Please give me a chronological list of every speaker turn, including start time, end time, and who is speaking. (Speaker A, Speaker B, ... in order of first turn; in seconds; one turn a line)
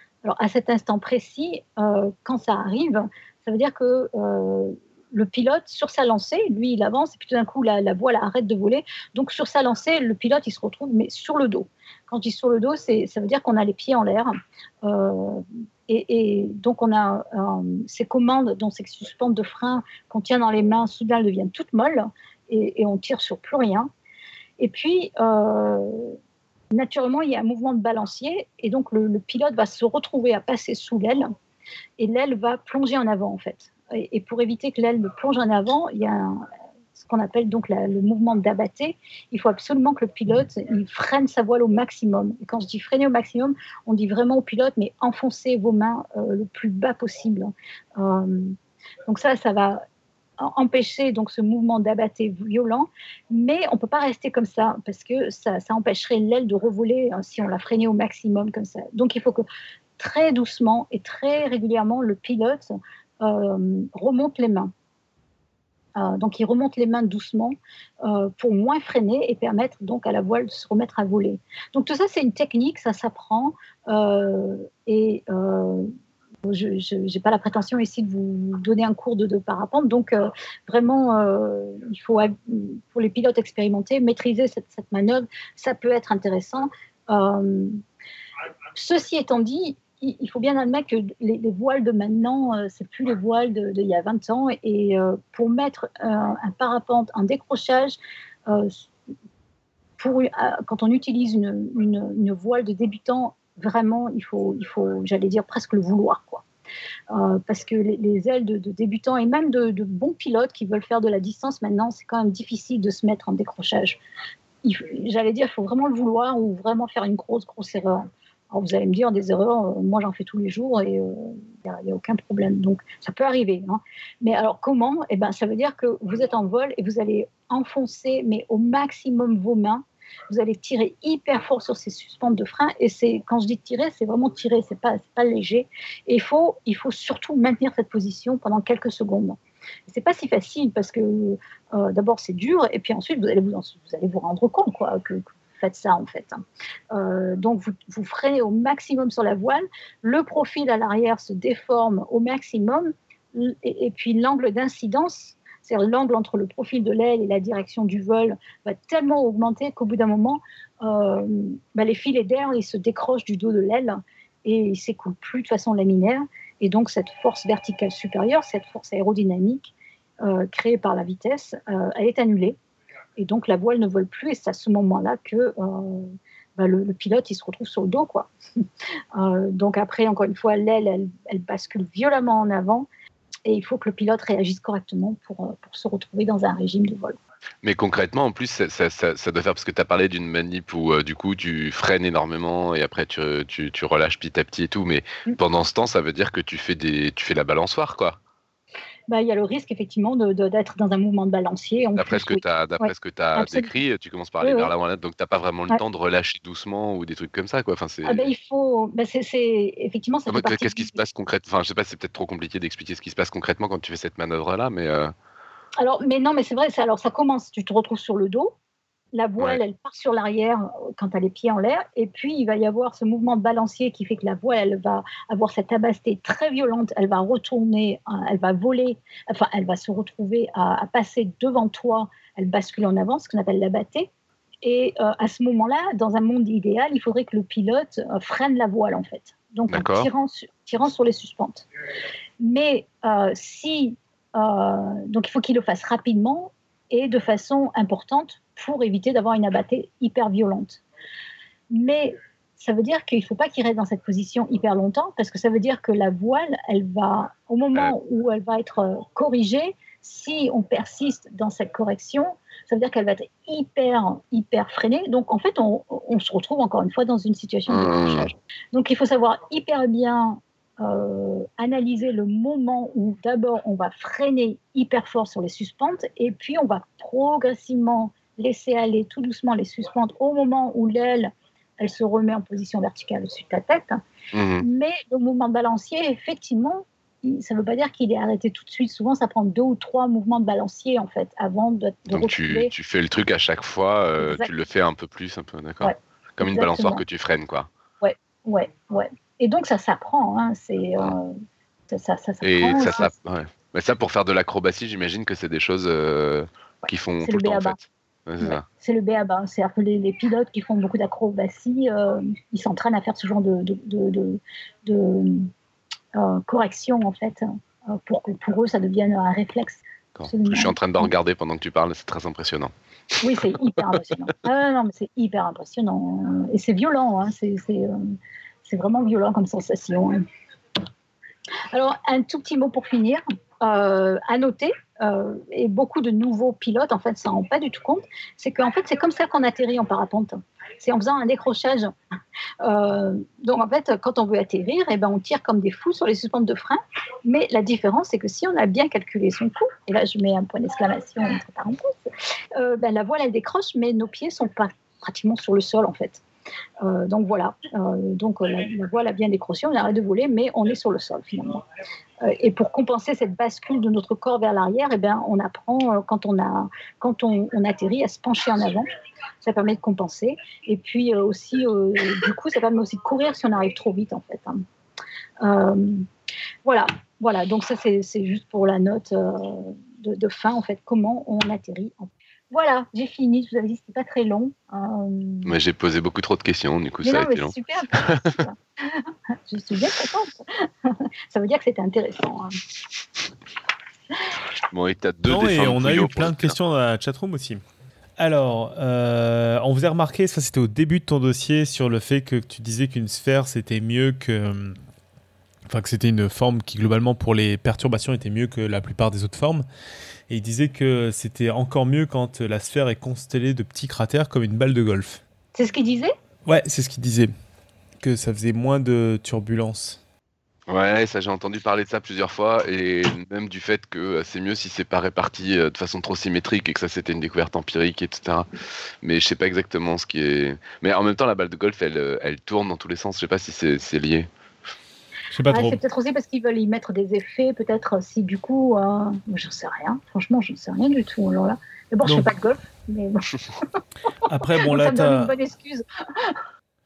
Speaker A: 0.2-23.9
Speaker A: 24.6-26.2
Speaker A: 26.7-31.3
Speaker A: 32.0-48.6
Speaker A: 49.1-49.8
Speaker A: 50.4-59.5
Speaker A: 60.0-64.7
Speaker A: 66.0-75.9
Speaker A: 76.5-87.8
Speaker A: 88.8-98.9
Speaker A: 100.0-106.4
Speaker A: 107.1-114.0
Speaker A: 114.6-146.4
Speaker A: 146.9-172.6
Speaker A: 173.2-178.3
Speaker A: 179.2-182.9
Speaker A: 183.5-187.2
Speaker B: 187.6-198.2
Speaker A: 199.1-203.7
Speaker B: 202.0-208.3
Speaker A: 204.4-204.7
Speaker A: 208.1-211.0
Speaker B: 210.3-215.1
Speaker A: 215.8-218.5
Speaker A: 219.1-234.1
Speaker A: 234.6-241.7
Speaker B: 239.7-240.1
Speaker A: 242.4-250.8
Speaker A: 251.7-284.0
Speaker B: 267.7-268.3
Speaker B: 284.3-284.6
Speaker A: 284.6-292.7
Speaker B: 292.1-297.7
Speaker A: 294.2-294.5
Speaker A: 295.8-297.0
Speaker A: 298.0-301.4
Speaker A: 301.9-303.1
Speaker B: 302.4-308.6
Speaker A: 307.2-307.8
Speaker A: 308.4-315.5
Speaker A: 316.1-321.1
Speaker B: 320.2-322.7
Speaker A: 323.2-330.2
Speaker A: 331.7-341.9
Speaker A: 342.6-351.9
Speaker A: 352.6-356.2
Speaker A: 356.8-361.6
Speaker A: 362.2-368.9
Speaker A: 369.4-374.6
Speaker A: 375.4-376.1
Speaker A: 376.6-385.5
Speaker B: 385.4-388.4
Speaker A: 387.0-392.6
Speaker B: 394.7-396.6
Speaker C: 395.2-397.6
Speaker C: 398.2-404.8
Speaker C: 405.7-409.7
Speaker C: 410.3-415.2
Speaker A: 415.6-416.1
Speaker C: 416.5-417.3
Speaker C: 418.0-420.0
Speaker B: 420.7-428.5
Speaker B: 429.0-434.3
Speaker C: 435.3-435.8
Speaker A: 435.5-443.3
Speaker C: 442.0-442.3
Speaker C: 444.3-445.3
Speaker A: 444.6-446.4